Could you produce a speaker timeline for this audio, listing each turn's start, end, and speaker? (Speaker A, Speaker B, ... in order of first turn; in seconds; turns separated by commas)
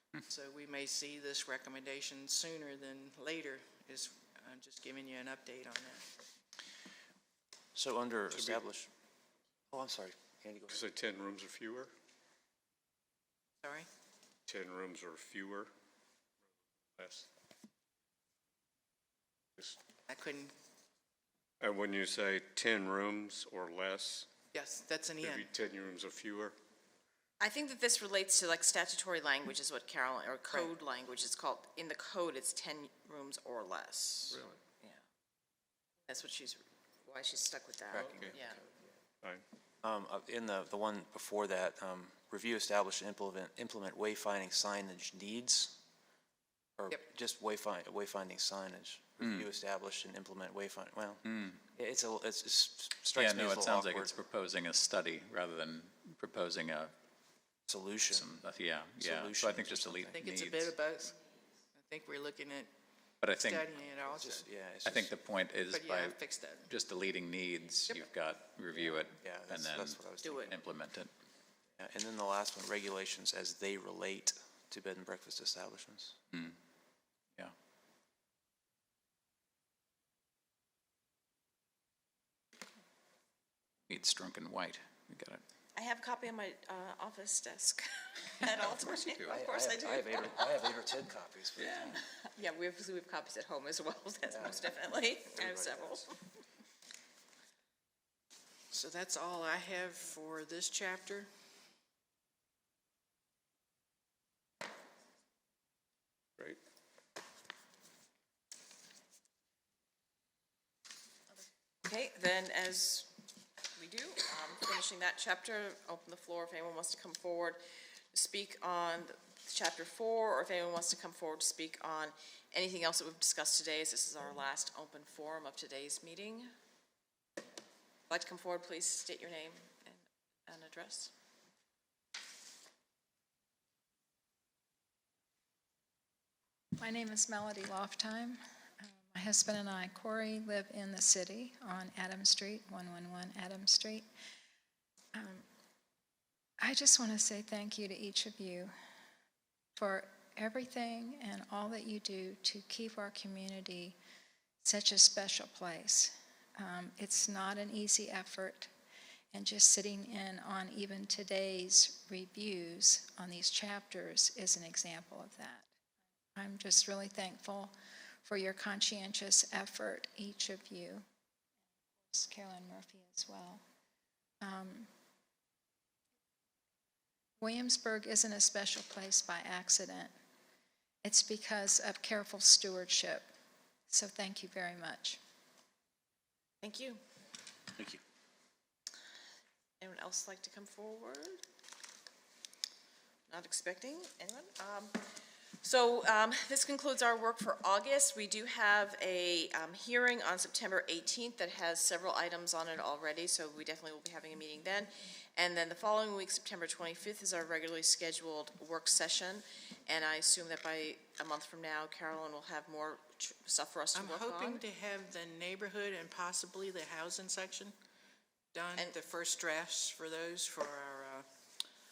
Speaker A: 0.2-6.1, Speaker B: 7.7-8.9, Speaker C: 8.3-8.6, Speaker B: 9.7-10.9, Speaker C: 10.7-11.9, Speaker A: 13.6-13.9, Speaker C: 14.5-15.7, Speaker C: 17.0-17.3, Speaker A: 20.1-20.5, Speaker C: 21.6-24.3, Speaker A: 24.5-25.5, Speaker C: 25.2-26.6, Speaker D: 27.4-35.0, Speaker C: 34.3-34.6, Speaker D: 36.1-38.6, Speaker C: 38.0-38.4, Speaker B: 39.8-45.8, Speaker B: 46.8-54.1, Speaker E: 51.2-51.6, Speaker E: 53.1-56.9, Speaker B: 57.7-58.3, Speaker E: 58.1-60.7, Speaker B: 59.0-60.2, Speaker A: 60.1-61.2, Speaker A: 61.7-62.7, Speaker E: 63.2-63.7, Speaker A: 63.3-64.5, Speaker B: 64.1-65.1, Speaker E: 64.8-71.1, Speaker A: 65.7-66.7, Speaker B: 69.2-70.5, Speaker A: 70.2-70.5, Speaker B: 71.8-76.2, Speaker E: 83.9-85.4, Speaker D: 85.7-90.4, Speaker E: 88.7-89.3, Speaker B: 89.3-91.9, Speaker D: 91.6-96.2, Speaker B: 94.3-94.8, Speaker B: 95.3-96.1, Speaker A: 98.7-101.3, Speaker D: 111.8-113.1, Speaker D: 113.8-117.6, Speaker D: 118.1-126.5, Speaker D: 128.1-131.1, Speaker F: 136.8-144.1, Speaker F: 145.1-145.4, Speaker F: 146.6-148.7, Speaker F: 149.8-153.9, Speaker F: 154.6-158.7, Speaker F: 159.3-165.7, Speaker F: 166.3-167.7, Speaker F: 168.2-171.1, Speaker F: 172.0-173.6, Speaker F: 174.4-174.9, Speaker F: 177.4-180.1, Speaker F: 181.0-183.2, Speaker F: 183.9-185.2, Speaker D: 186.6-187.0, Speaker D: 189.8-191.4, Speaker D: 193.3-195.1, Speaker D: 195.6-214.6, Speaker A: 213.9-217.7, Speaker A: 218.5-221.3